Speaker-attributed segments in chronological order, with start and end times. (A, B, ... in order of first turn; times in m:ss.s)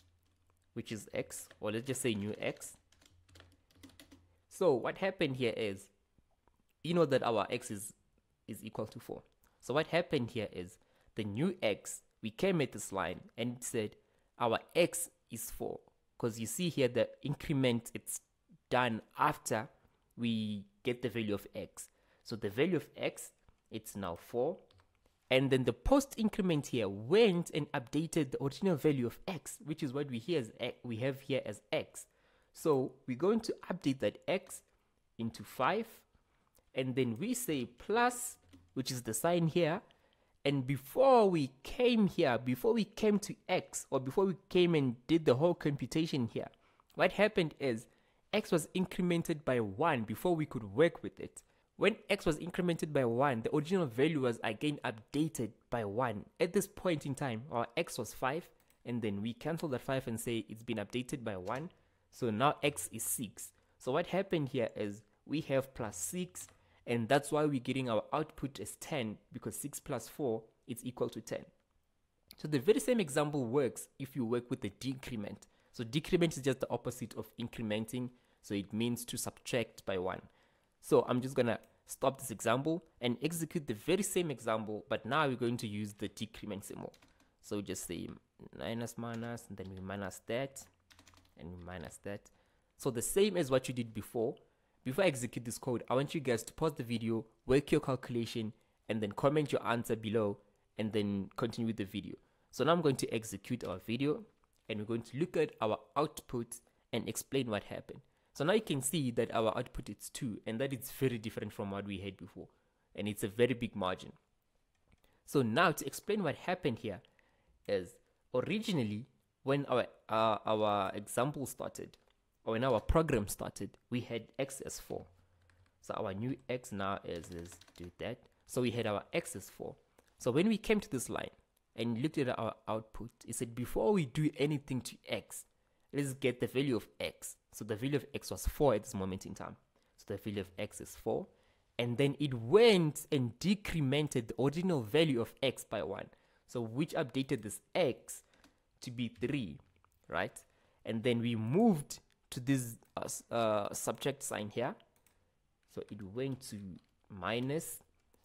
0:00.7-0:02.8 A
0:04.5-0:05.9 A
0:06.8-0:07.9 A
0:08.5-0:24.6 A
0:25.3-0:34.6 A
0:35.2-0:36.0 A
0:36.7-0:39.8 A
0:40.4-1:11.5 A
1:12.4-1:20.3 A
1:20.8-1:30.7 A
1:31.4-1:54.2 A
1:55.2-1:57.0 A
1:57.7-2:05.1 A
2:05.8-2:28.2 A
2:28.8-2:34.8 A
2:35.7-2:37.8 A